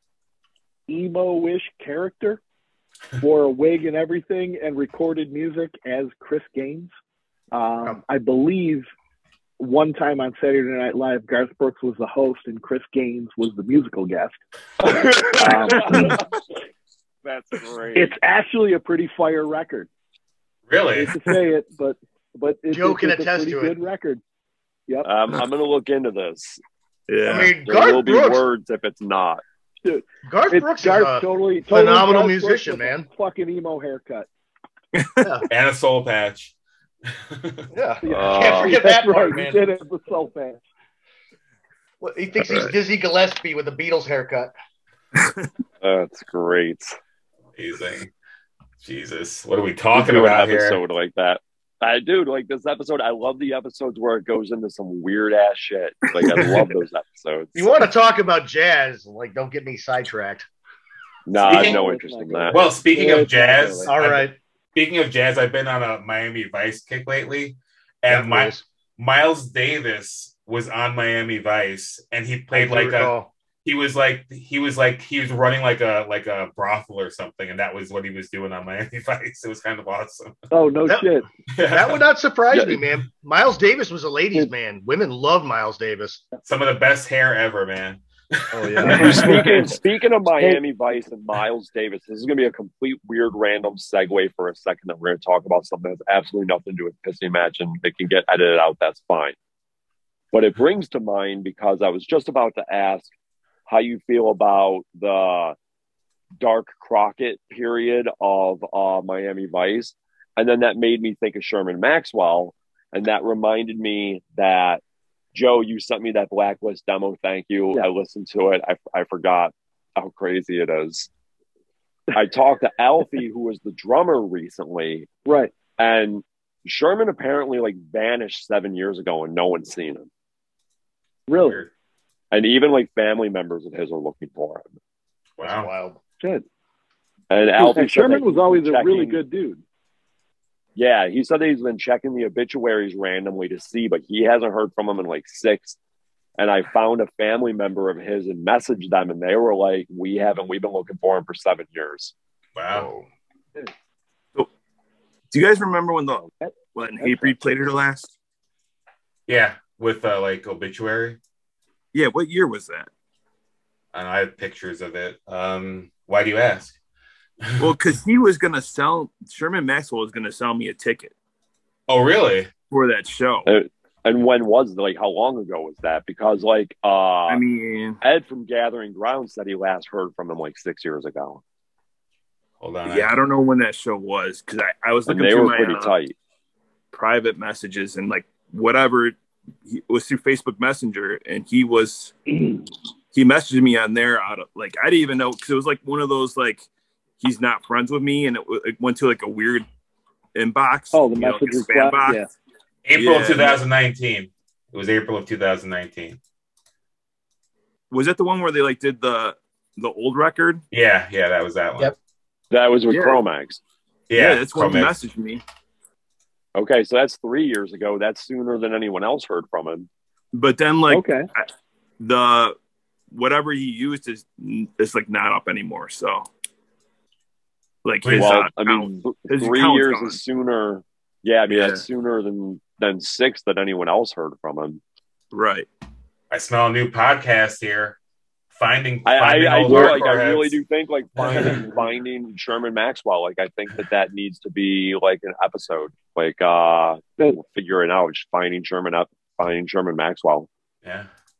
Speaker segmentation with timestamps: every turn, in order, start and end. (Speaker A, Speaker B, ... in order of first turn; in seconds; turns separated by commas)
Speaker A: 0.9-2.4, Speaker A: 3.2-6.9, Speaker A: 7.5-8.8, Speaker A: 9.6-14.4, Speaker B: 15.3-16.2, Speaker A: 15.3-16.2, Speaker B: 17.2-18.1, Speaker A: 17.9-19.9, Speaker C: 20.7-21.2, Speaker A: 20.9-24.2, Speaker D: 22.7-23.8, Speaker B: 25.0-26.6, Speaker E: 27.1-27.6, Speaker D: 27.2-28.4, Speaker B: 27.6-29.4, Speaker A: 29.8-34.3, Speaker D: 30.2-33.1, Speaker E: 34.9-35.3, Speaker D: 35.2-35.4, Speaker C: 35.5-36.5, Speaker C: 37.1-37.7, Speaker D: 37.7-39.6, Speaker A: 38.0-40.6, Speaker B: 38.1-38.8, Speaker D: 42.0-44.5, Speaker E: 42.4-42.7, Speaker E: 45.1-45.5, Speaker B: 45.8-47.0, Speaker C: 47.5-48.1, Speaker C: 48.8-50.8, Speaker B: 49.9-57.7, Speaker E: 56.2-56.7, Speaker D: 57.5-60.5, Speaker B: 61.2-62.6, Speaker A: 61.4-63.9, Speaker C: 61.4-61.8, Speaker C: 62.5-80.3, Speaker D: 63.9-64.3, Speaker D: 68.1-68.6, Speaker D: 72.5-73.3, Speaker A: 80.5-81.3, Speaker C: 81.5-82.0, Speaker D: 81.7-86.2, Speaker B: 82.5-82.8, Speaker C: 86.5-89.5, Speaker D: 88.5-89.2, Speaker A: 88.9-89.7, Speaker B: 88.9-99.3, Speaker B: 100.3-103.1, Speaker B: 103.7-105.5, Speaker B: 106.4-114.8, Speaker B: 115.3-121.1, Speaker B: 122.1-125.1, Speaker A: 125.2-125.5, Speaker B: 125.8-130.1, Speaker A: 131.3-131.6, Speaker C: 131.4-131.7, Speaker B: 132.3-134.7, Speaker C: 135.4-135.7, Speaker D: 135.4-136.0, Speaker B: 137.3-139.2, Speaker A: 137.6-139.6, Speaker B: 140.8-145.8, Speaker B: 146.4-152.1, Speaker C: 152.6-152.9, Speaker D: 152.7-153.0, Speaker E: 155.3-158.1, Speaker A: 156.4-157.4, Speaker C: 159.3-161.2, Speaker E: 161.9-162.9, Speaker C: 163.9-166.7, Speaker C: 167.4-167.7, Speaker E: 167.6-171.1, Speaker C: 171.9-172.5, Speaker E: 172.7-173.5, Speaker B: 173.4-177.4, Speaker E: 177.3-178.0, Speaker B: 178.0-181.4, Speaker C: 182.6-183.1, Speaker E: 182.8-186.0, Speaker B: 185.1-186.1, Speaker E: 186.9-192.1, Speaker E: 193.1-196.7, Speaker E: 197.2-199.7, Speaker E: 200.3-202.2, Speaker A: 200.9-202.3, Speaker C: 202.8-206.2, Speaker E: 202.9-203.6, Speaker E: 207.9-210.6, Speaker C: 210.7-211.9, Speaker B: 212.5-213.6, Speaker E: 212.9-213.2, Speaker C: 214.1-214.9, Speaker E: 214.1-215.4, Speaker B: 216.5-219.9, Speaker E: 220.3-221.5, Speaker A: 220.9-221.3, Speaker E: 222.0-222.6, Speaker E: 223.1-226.3, Speaker E: 227.8-230.2, Speaker B: 228.1-234.8, Speaker E: 231.5-231.8, Speaker E: 235.3-235.7, Speaker C: 236.3-238.0, Speaker C: 238.5-240.6, Speaker B: 239.1-250.5, Speaker E: 239.7-240.0, Speaker C: 241.2-241.6, Speaker C: 250.8-251.1